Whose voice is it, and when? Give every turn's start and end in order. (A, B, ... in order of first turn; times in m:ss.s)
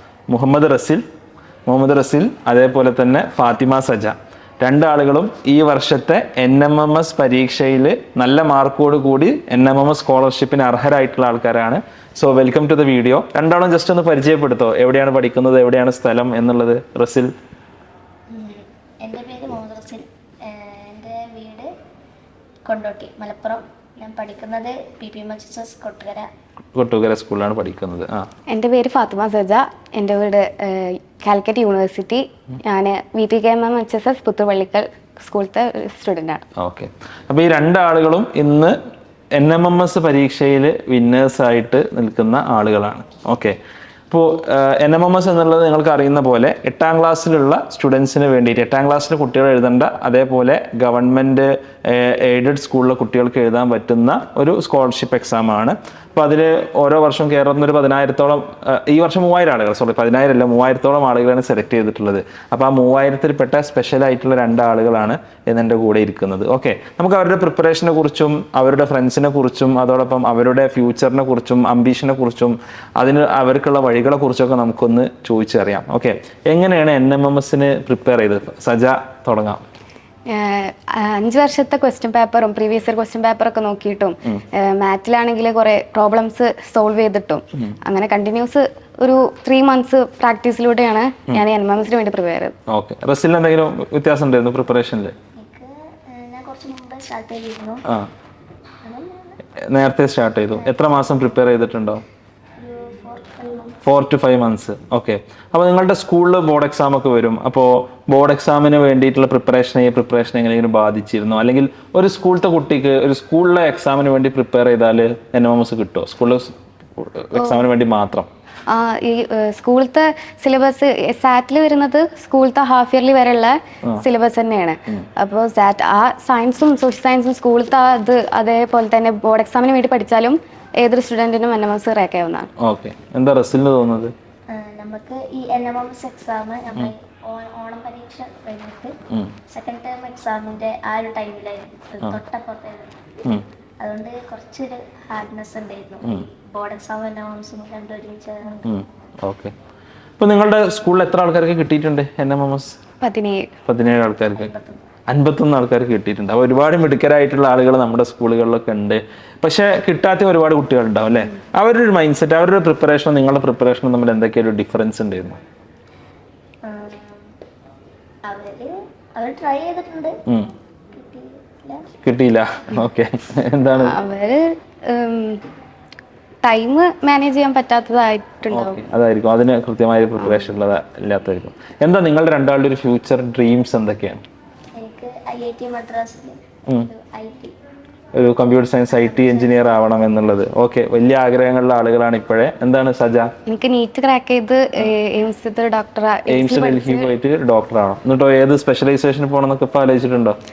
0:00.3-0:01.0 A
0:01.7-0:17.3 A
0:18.3-0:21.7 B
0:22.7-0:26.3 B
0:26.8-0:28.3 A
0:28.5-0:36.5 C
0:36.6-0:38.8 A
0:39.3-0:43.6 A
0:44.1-1:19.6 A
1:20.3-1:32.6 C
1:32.7-1:35.1 A
1:35.4-1:37.8 B
1:38.8-1:39.4 B
1:39.6-1:42.0 A
1:40.5-1:40.8 B
1:42.6-1:43.8 B
1:43.8-1:58.3 A
1:57.4-1:57.6 C
1:58.7-2:12.5 C
2:12.6-2:14.1 A
2:14.5-2:19.0 B
2:19.5-2:23.2 B
2:23.8-2:28.8 B
2:28.6-2:29.5 A
2:30.2-2:32.8 A
2:33.0-2:33.5 C
2:33.7-2:34.5 A
2:34.4-2:34.9 B
2:35.1-2:45.4 A
2:46.6-2:47.3 B
2:48.2-2:50.2 B
2:50.9-2:51.9 B
2:52.0-2:54.0 A
2:53.8-2:55.4 C
2:56.4-2:58.9 C
2:58.5-3:04.2 A
3:04.8-3:07.6 B
3:08.1-3:13.3 A
3:08.9-3:09.6 B
3:13.5-3:17.1 C
3:16.3-3:20.4 A